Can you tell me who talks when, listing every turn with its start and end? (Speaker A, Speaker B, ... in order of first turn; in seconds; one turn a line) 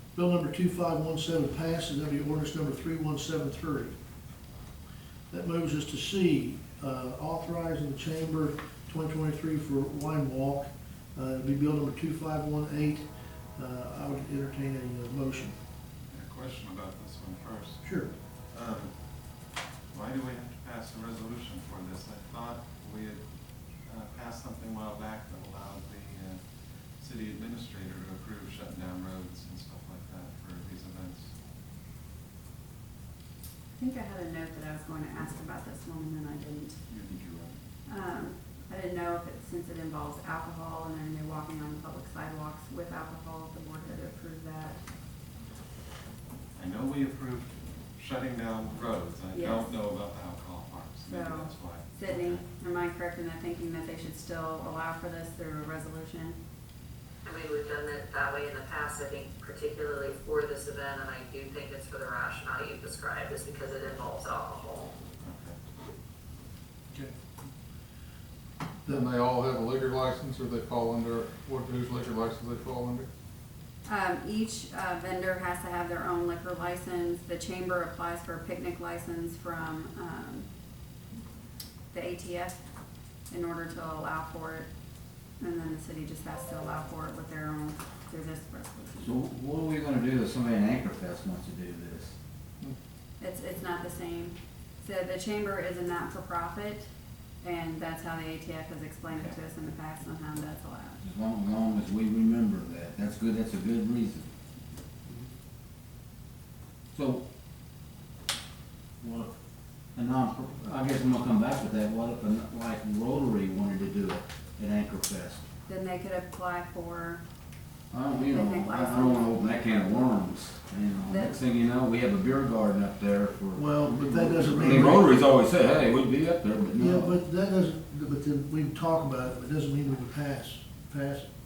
Speaker A: 0.1-3.9
Speaker A: 5.3-15.5
Speaker B: 16.1-17.8
Speaker A: 17.8-18.1
Speaker B: 18.5-18.9
Speaker B: 19.9-23.2
Speaker B: 23.9-26.4
Speaker B: 27.0-31.3
Speaker C: 33.8-36.8
Speaker C: 37.9-44.8
Speaker B: 46.5-52.4
Speaker C: 49.3-49.8
Speaker C: 51.0-56.4
Speaker D: 57.2-64.9
Speaker B: 65.2-65.5
Speaker E: 68.9-73.1
Speaker C: 73.8-80.5
Speaker C: 81.9-82.6
Speaker C: 83.3-84.7
Speaker C: 85.4-89.1
Speaker F: 89.0-92.1
Speaker C: 93.2-96.9
Speaker C: 97.4-101.0
Speaker F: 101.0-104.2
Speaker F: 106.9-107.2
Speaker F: 109.0-109.3
Speaker F: 109.9-115.4
Speaker C: 115.7-117.2
Speaker F: 117.9-127.2
Speaker C: 118.3-119.3
Speaker C: 121.1-121.4
Speaker A: 123.5-125.2
Speaker A: 126.8-131.3